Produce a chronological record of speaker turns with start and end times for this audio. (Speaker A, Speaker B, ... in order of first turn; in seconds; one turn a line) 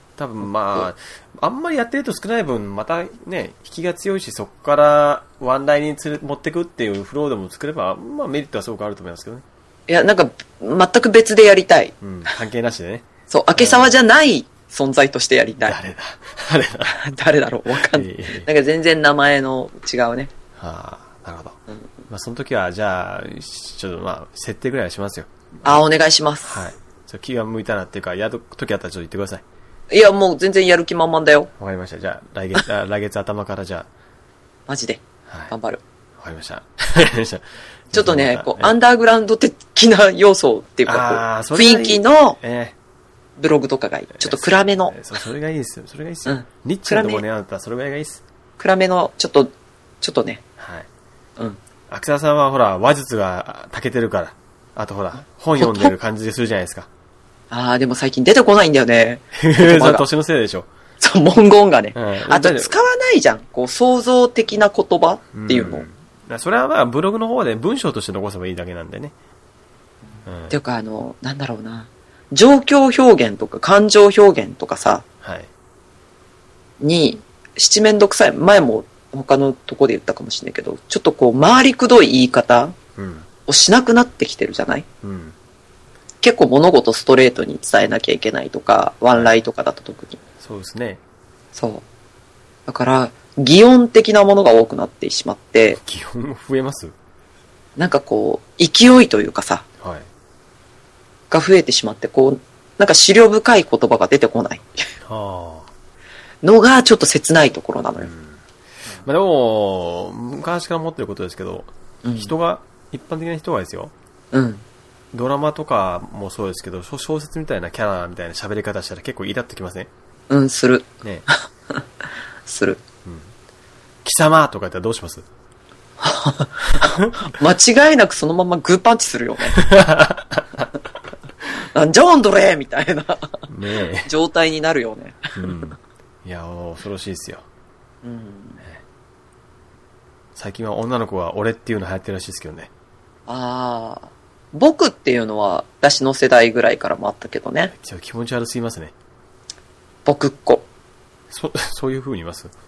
Speaker A: 0.2-9.4
Speaker B: 9.9-11.9
Speaker A: 12.0-13.9
Speaker B: 13.3-15.8
Speaker A: 15.6-17.1
Speaker B: 16.9-20.3
Speaker A: 17.8-18.5
Speaker A: 20.6-25.8
Speaker B: 25.6-26.6
Speaker A: 26.4-29.4
Speaker B: 29.9-31.5
Speaker A: 31.6-33.9
Speaker B: 34.7-35.8
Speaker A: 35.3-35.5
Speaker A: 36.2-38.7
Speaker B: 37.9-42.4
Speaker A: 40.9-42.7
Speaker B: 43.4-45.1
Speaker A: 44.1-48.2
Speaker B: 46.3-47.2
Speaker B: 48.6-50.4
Speaker A: 50.6-50.9
Speaker A: 51.9-56.9
Speaker B: 55.6-55.9
Speaker B: 57.5-60.0
Speaker A: 59.3-60.7
Speaker B: 61.0-65.8
Speaker A: 61.9-62.8
Speaker A: 65.3-69.1
Speaker A: 70.3-70.5
Speaker B: 70.5-75.0
Speaker A: 75.2-75.5
Speaker B: 76.8-82.8
Speaker A: 83.0-83.3
Speaker B: 83.5-84.8
Speaker A: 85.0-85.4
Speaker B: 86.2-90.2
Speaker A: 90.4-91.0
Speaker B: 91.5-91.8
Speaker B: 92.7-95.8
Speaker A: 95.8-97.0
Speaker B: 97.8-99.6
Speaker A: 99.8-100.1
Speaker B: 101.3-104.7
Speaker A: 105.0-105.7
Speaker B: 106.4-108.1
Speaker A: 108.0-108.4
Speaker A: 109.0-113.9
Speaker B: 112.0-112.3
Speaker B: 114.3-114.6
Speaker A: 115.1-119.9
Speaker B: 120.3-120.9
Speaker B: 122.5-122.8
Speaker A: 123.0-123.3
Speaker A: 124.0-125.2
Speaker B: 126.0-129.6
Speaker A: 129.5-130.7
Speaker B: 131.6-133.4
Speaker A: 133.5-134.1
Speaker B: 134.1-135.2
Speaker A: 135.3-137.4
Speaker B: 138.0-138.6
Speaker A: 140.4-142.7
Speaker B: 143.3-147.7
Speaker A: 147.7-148.9
Speaker B: 150.1-150.7
Speaker A: 151.3-152.5